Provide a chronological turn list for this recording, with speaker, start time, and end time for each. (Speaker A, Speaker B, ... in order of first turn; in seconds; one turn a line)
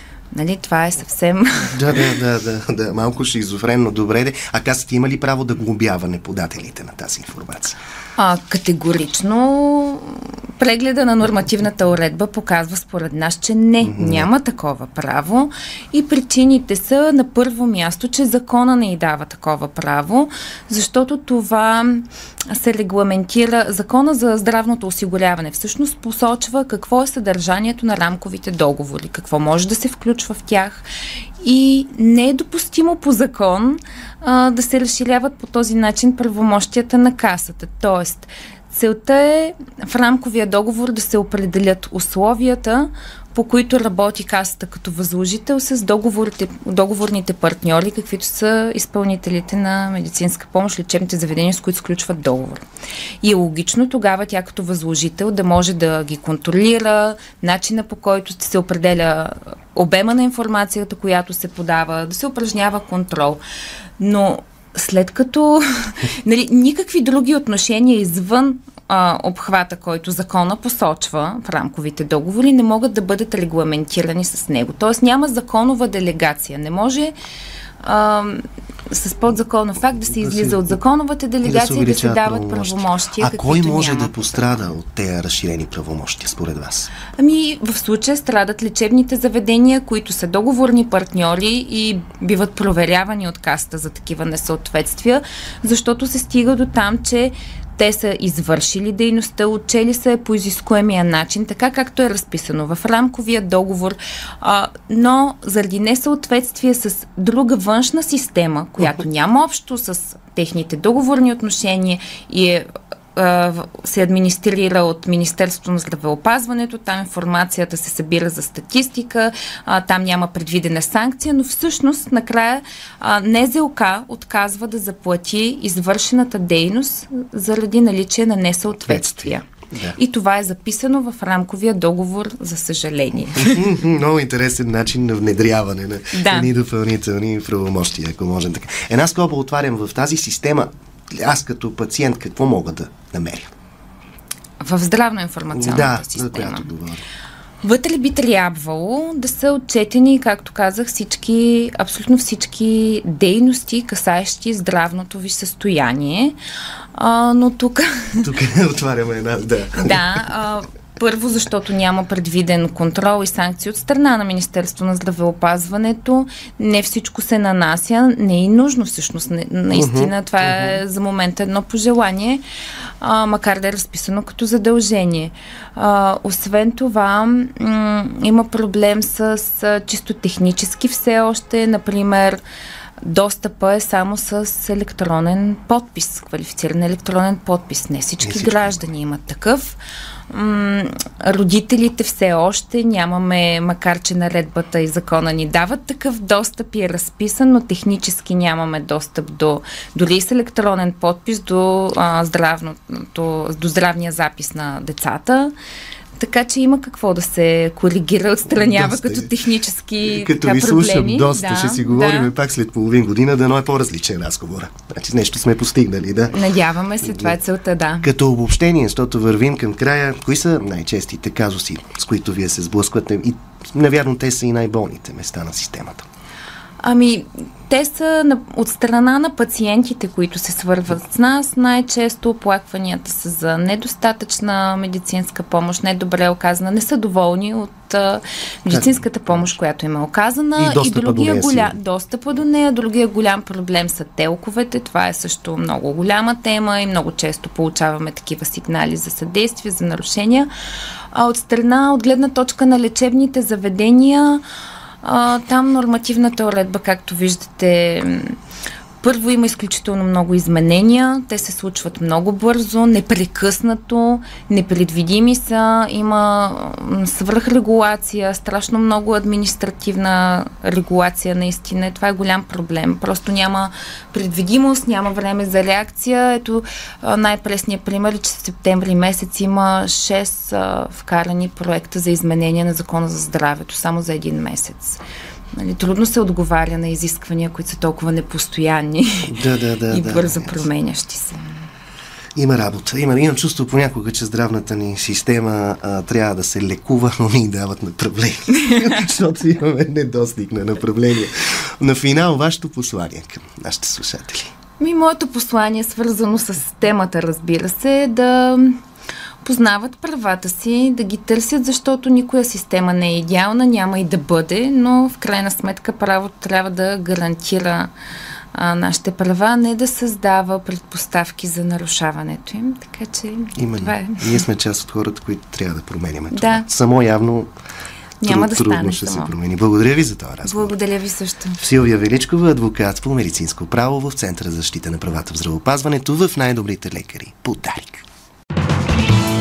Speaker A: 0.3-2.0
Speaker B: 1.7-7.8
Speaker A: 8.2-30.8
Speaker B: 13.8-14.3
Speaker A: 31.4-52.6
Speaker A: 53.2-63.4
Speaker A: 64.0-77.1
Speaker A: 77.8-84.1
Speaker B: 80.2-80.8
Speaker B: 81.4-86.9
Speaker A: 87.2-133.6
Speaker B: 128.7-130.0
Speaker B: 133.3-143.5
Speaker A: 136.1-136.5
Speaker A: 144.6-146.7
Speaker B: 145.5-147.0
Speaker A: 147.6-156.3
Speaker A: 156.9-158.3
Speaker B: 158.2-160.0
Speaker A: 159.8-172.4
Speaker B: 169.7-170.8
Speaker A: 173.0-182.4
Speaker A: 183.0-189.8
Speaker B: 188.2-188.8
Speaker A: 190.3-205.5
Speaker A: 206.2-212.3
Speaker B: 208.5-209.3
Speaker B: 210.0-216.4
Speaker A: 216.3-218.1
Speaker B: 217.0-217.3
Speaker B: 218.0-226.0
Speaker A: 226.8-250.5
Speaker B: 238.7-239.5
Speaker B: 240.6-241.7
Speaker A: 251.1-254.4
Speaker A: 255.0-258.4
Speaker A: 259.0-285.0
Speaker A: 285.5-291.5
Speaker B: 289.2-290.6
Speaker B: 292.4-304.5
Speaker A: 304.8-308.8
Speaker A: 309.4-317.9
Speaker A: 318.5-324.4
Speaker B: 323.6-327.5
Speaker A: 326.3-326.6
Speaker A: 328.2-329.3
Speaker B: 328.2-330.7
Speaker A: 330.4-331.6
Speaker B: 331.6-338.0